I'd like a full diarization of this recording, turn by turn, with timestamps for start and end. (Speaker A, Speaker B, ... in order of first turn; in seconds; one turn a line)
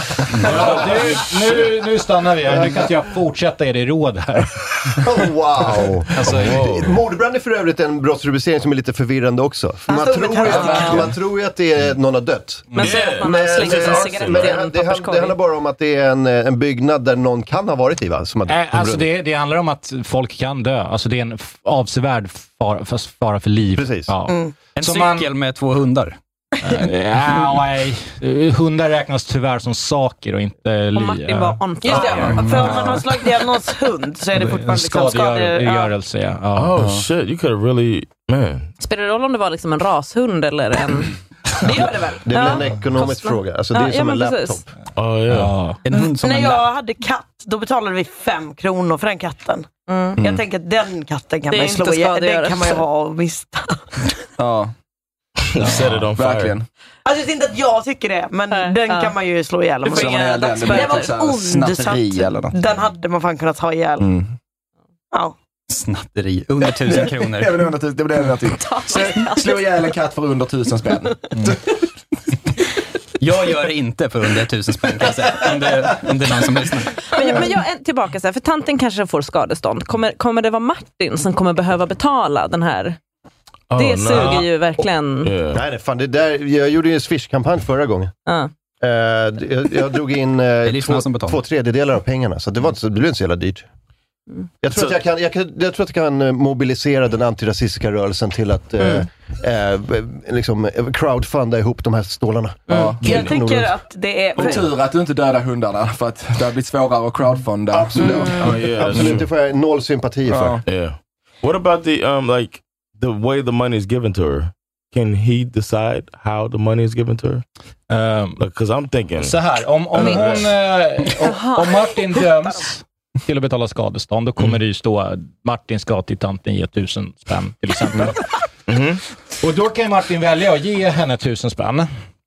Speaker A: 0.2-5.1
Speaker B: 5.0-19.1
Speaker A: 6.2-6.8
Speaker C: 6.2-6.9
Speaker D: 9.9-11.0
Speaker E: 10.5-11.0
Speaker F: 12.7-15.3
Speaker C: 12.8-14.6
Speaker A: 18.5-25.3
Speaker B: 23.7-24.1
Speaker G: 24.8-26.2
Speaker A: 26.6-33.1
Speaker F: 30.9-33.0
Speaker D: 31.8-35.9
Speaker A: 34.3-36.8
Speaker C: 36.5-38.7
Speaker E: 36.8-37.0
Speaker F: 38.8-41.1
Speaker D: 41.6-42.6
Speaker B: 42.2-44.7
Speaker F: 42.3-44.6
Speaker C: 45.0-45.5
Speaker A: 45.3-45.8
Speaker G: 45.8-46.7
Speaker D: 46.0-53.9
Speaker F: 49.9-50.2
Speaker E: 50.2-50.4
Speaker F: 51.5-52.8
Speaker E: 54.4-54.7
Speaker C: 55.5-56.5
Speaker E: 55.6-56.6
Speaker D: 57.0-64.1
Speaker F: 58.5-59.1
Speaker E: 59.8-62.5
Speaker F: 59.9-61.1
Speaker E: 64.0-64.3
Speaker G: 65.7-67.7
Speaker E: 66.8-71.8
Speaker F: 68.5-69.7
Speaker G: 73.2-77.0
Speaker F: 77.1-83.0
Speaker C: 83.7-84.5
Speaker F: 83.8-85.3
Speaker C: 85.2-85.6
Speaker B: 85.5-88.1
Speaker B: 88.8-93.6
Speaker G: 90.6-91.4
Speaker B: 94.6-103.7
Speaker E: 102.7-103.2
Speaker D: 103.0-104.7
Speaker E: 104.3-109.1
Speaker B: 107.7-110.6
Speaker C: 108.4-109.2
Speaker E: 110.3-110.6
Speaker C: 110.7-117.4
Speaker A: 117.9-118.4
Speaker C: 118.4-119.3
Speaker A: 119.2-128.2
Speaker C: 119.9-120.5
Speaker F: 121.2-121.8
Speaker C: 128.7-129.0
Speaker A: 129.4-131.9